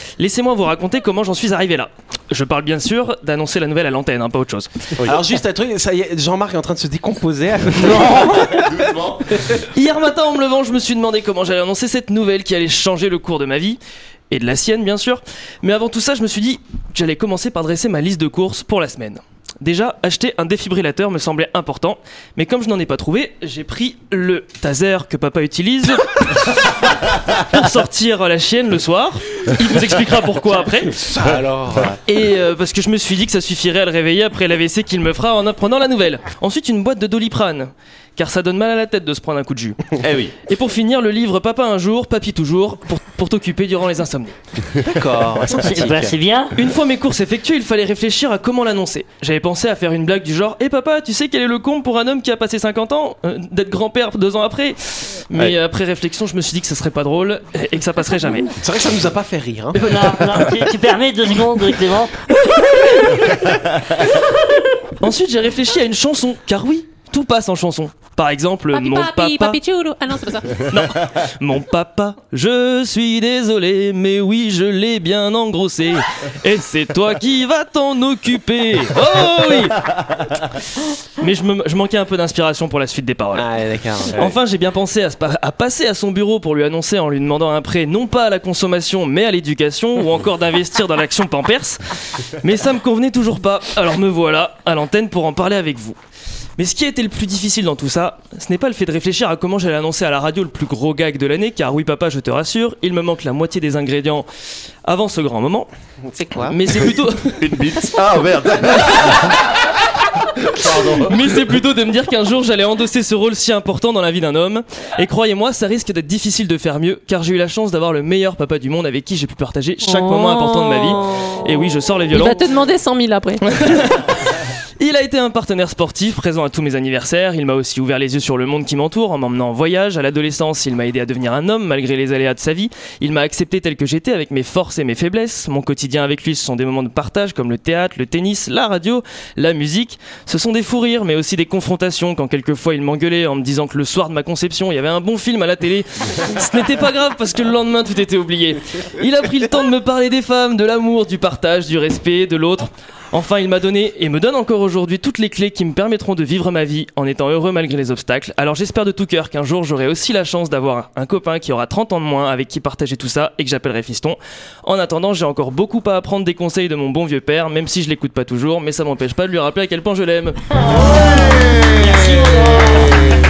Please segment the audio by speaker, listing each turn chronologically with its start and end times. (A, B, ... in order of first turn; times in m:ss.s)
0:00.2-0:04.7 A
0:05.0-0:08.9 B
0:07.8-0:09.4 C
0:09.7-0:31.0 A
0:30.9-0:32.0 B
0:32.0-0:39.8 A
0:40.0-0:40.3 C
0:40.5-0:44.4 A
0:44.8-0:46.2 B
0:45.5-0:46.5 D
0:46.6-0:58.5 A
0:58.5-0:59.8 B
0:59.7-1:00.7 A
0:59.8-1:02.2 D
1:02.9-1:03.2 A
1:02.9-1:03.5 E
1:05.0-1:09.6 A
1:08.7-1:10.7 E
1:10.5-1:23.5 A
1:23.3-1:24.2 B
1:24.1-1:36.0 A
1:36.6-1:44.2 A
1:44.8-1:45.7 A
1:46.0-1:46.6 B
1:46.5-1:47.6 A
1:47.4-1:49.4 C
1:48.9-1:49.3 A
1:50.5-1:51.2 C
1:50.9-2:02.4 A
1:59.8-2:01.3 E
2:02.1-2:03.7 E
2:03.5-2:50.4 A
2:50.7-2:53.2 D
2:51.3-2:53.1 C